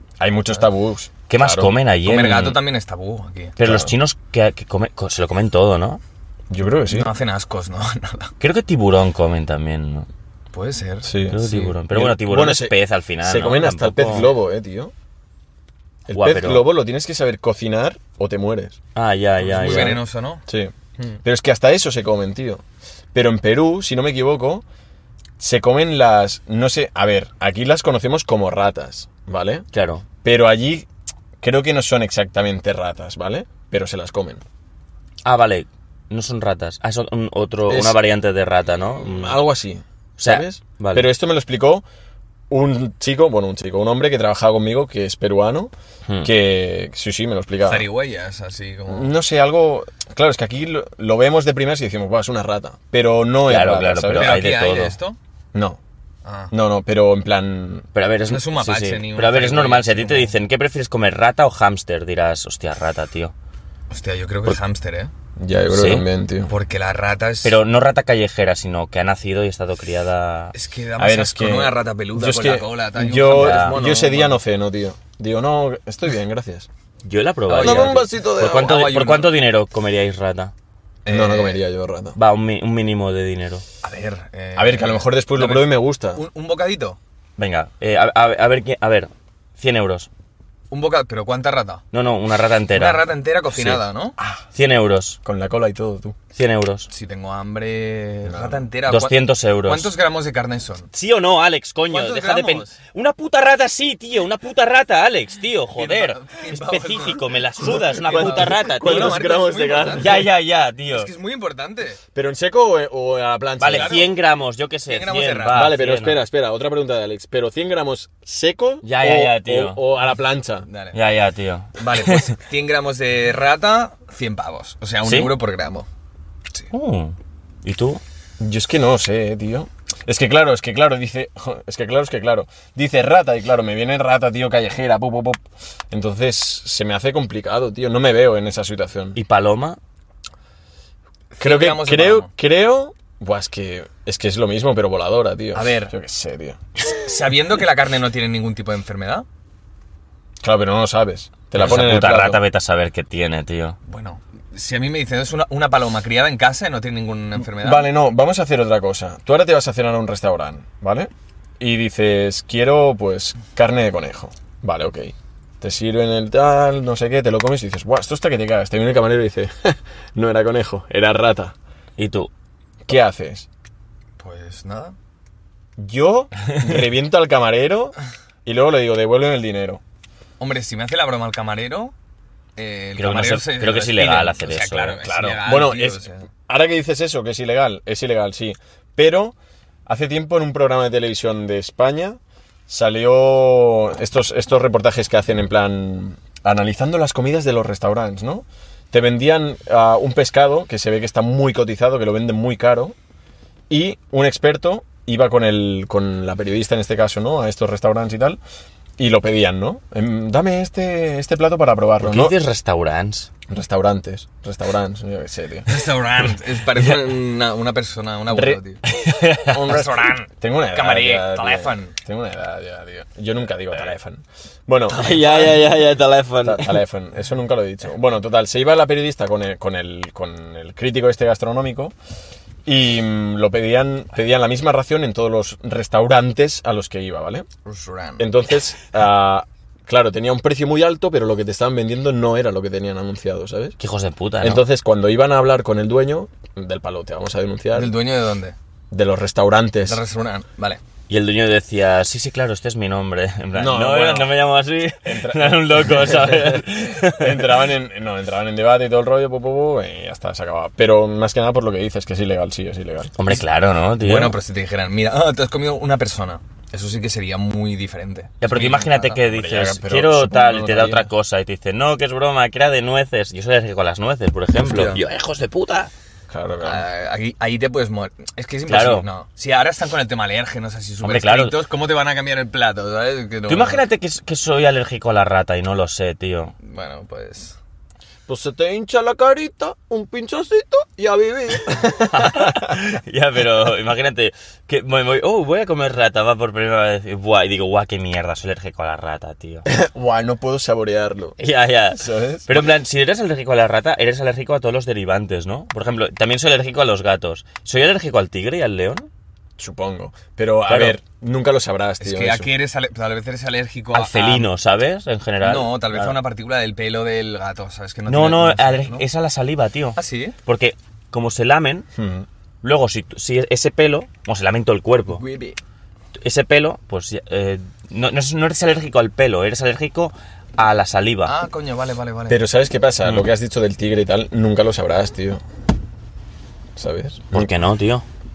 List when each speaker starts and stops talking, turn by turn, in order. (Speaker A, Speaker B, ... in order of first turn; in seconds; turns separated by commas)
Speaker A: 0.2-1.7, Speaker B: 1.3-2.6, Speaker C: 2.0-3.5, Speaker B: 3.6-6.0, Speaker A: 3.6-3.9, Speaker A: 6.5-7.1, Speaker C: 6.9-8.3, Speaker B: 8.4-10.1, Speaker C: 10.5-11.7, Speaker A: 11.0-14.9, Speaker B: 11.3-14.3, Speaker A: 16.1-18.8, Speaker B: 16.1-16.6, Speaker B: 18.9-20.0, Speaker C: 19.4-20.4, Speaker A: 19.6-22.6, Speaker A: 23.1-24.6, Speaker A: 25.4-29.7, Speaker B: 29.7-30.0, Speaker A: 30.2-30.9, Speaker A: 31.4-34.4, Speaker B: 35.2-39.4, Speaker A: 37.7-38.0, Speaker A: 39.0-41.8, Speaker B: 40.2-41.1, Speaker A: 42.5-45.7, Speaker A: 46.2-47.9, Speaker C: 47.6-49.1, Speaker A: 48.9-54.4, Speaker B: 53.5-55.0, Speaker C: 54.1-55.2, Speaker A: 55.5-55.8, Speaker C: 56.2-56.5, Speaker A: 56.5-57.8, Speaker B: 57.9-63.3, Speaker C: 58.3-60.3, Speaker C: 63.9-65.1, Speaker A: 65.4-66.5, Speaker B: 65.7-66.0, Speaker C: 66.5-67.6, Speaker B: 67.4-70.5, Speaker C: 70.5-74.4, Speaker A: 71.0-76.7, Speaker B: 73.2-73.8, Speaker B: 77.0-80.5, Speaker C: 77.5-79.3, Speaker A: 77.6-78.8, Speaker C: 81.0-81.6, Speaker A: 81.1-82.2, Speaker B: 82.2-83.6, Speaker C: 83.8-87.0, Speaker A: 84.5-86.2, Speaker B: 87.4-90.1, Speaker C: 90.7-91.8, Speaker B: 91.9-93.0, Speaker C: 92.7-94.2, Speaker A: 94.2-94.4, Speaker B: 94.5-95.2, Speaker A: 95.2-96.2, Speaker B: 96.3-96.9, Speaker C: 96.9-100.9, Speaker A: 98.2-98.7, Speaker B: 98.9-99.9, Speaker B: 100.9-109.2, Speaker C: 101.9-102.7, Speaker C: 105.8-110.2, Speaker A: 108.0-110.3, Speaker B: 109.9-111.1, Speaker C: 110.9-112.0, Speaker A: 112.1-114.0, Speaker B: 113.6-116.2, Speaker C: 113.7-114.2, Speaker C: 114.9-115.7, Speaker A: 115.5-120.7, Speaker B: 118.8-119.8, Speaker C: 120.6-121.0, Speaker B: 120.9-122.3, Speaker C: 121.8-125.9, Speaker B: 125.0-125.3, Speaker B: 126.7-128.0, Speaker A: 128.4-139.2, Speaker B: 139.2-139.8, Speaker C: 141.3-142.3, Speaker A: 141.4-146.6, Speaker C: 145.5-145.9, Speaker C: 146.9-149.2, Speaker A: 150.4-152.4, Speaker B: 151.5-153.8, Speaker C: 153.8-157.9, Speaker A: 157.4-171.5, Speaker B: 172.0-172.3, Speaker A: 172.9-173.5, Speaker C: 174.2-174.9, Speaker A: 175.8-179.8, Speaker C: 180.4-181.9, Speaker C: 182.6-186.3, Speaker B: 183.0-185.0, Speaker A: 185.0-189.3, Speaker A: 189.8-202.9, Speaker A: 203.7-208.4, Speaker A: 209.0-212.3, Speaker B: 212.0-213.3, Speaker A: 213.5-215.8, Speaker C: 215.7-218.8, Speaker A: 218.3-218.6, Speaker B: 218.8-219.7, Speaker A: 219.4-225.6, Speaker C: 219.6-221.9, Speaker B: 224.9-226.8, Speaker A: 226.4-231.9, Speaker A: 232.7-237.5, Speaker C: 237.6-238.3, Speaker A: 238.2-243.8, Speaker B: 243.8-244.6, Speaker A: 244.4-247.9, Speaker C: 247.7-248.6, Speaker A: 248.9-250.0, Speaker C: 249.8-250.8, Speaker B: 251.1-257.6, Speaker A: 253.5-254.3, Speaker A: 255.0-263.1, Speaker B: 263.2-264.4, Speaker C: 264.0-269.2, Speaker B: 268.4-275.9, Speaker A: 269.3-271.1, Speaker C: 274.6-275.0, Speaker A: 276.3-276.8, Speaker C: 276.6-283.8, Speaker B: 278.7-279.1, Speaker B: 281.0-281.6, Speaker B: 283.5-286.5, Speaker C: 286.6-287.6, Speaker A: 288.3-292.7, Speaker B: 291.8-299.6, Speaker A: 299.6-301.4, Speaker B: 301.4-309.1, Speaker A: 301.9-302.7, Speaker A: 309.6-312.5, Speaker B: 310.7-311.0, Speaker C: 312.0-314.5, Speaker B: 313.9-316.1, Speaker C: 315.4-319.0, Speaker B: 318.1-321.9, Speaker C: 319.9-320.4, Speaker A: 321.9-322.2, Speaker B: 322.6-325.2, Speaker C: 325.1-325.6, Speaker B: 326.2-331.3, Speaker C: 331.2-332.4, Speaker A: 332.3-335.4, Speaker A: 336.8-337.5, Speaker B: 337.3-338.0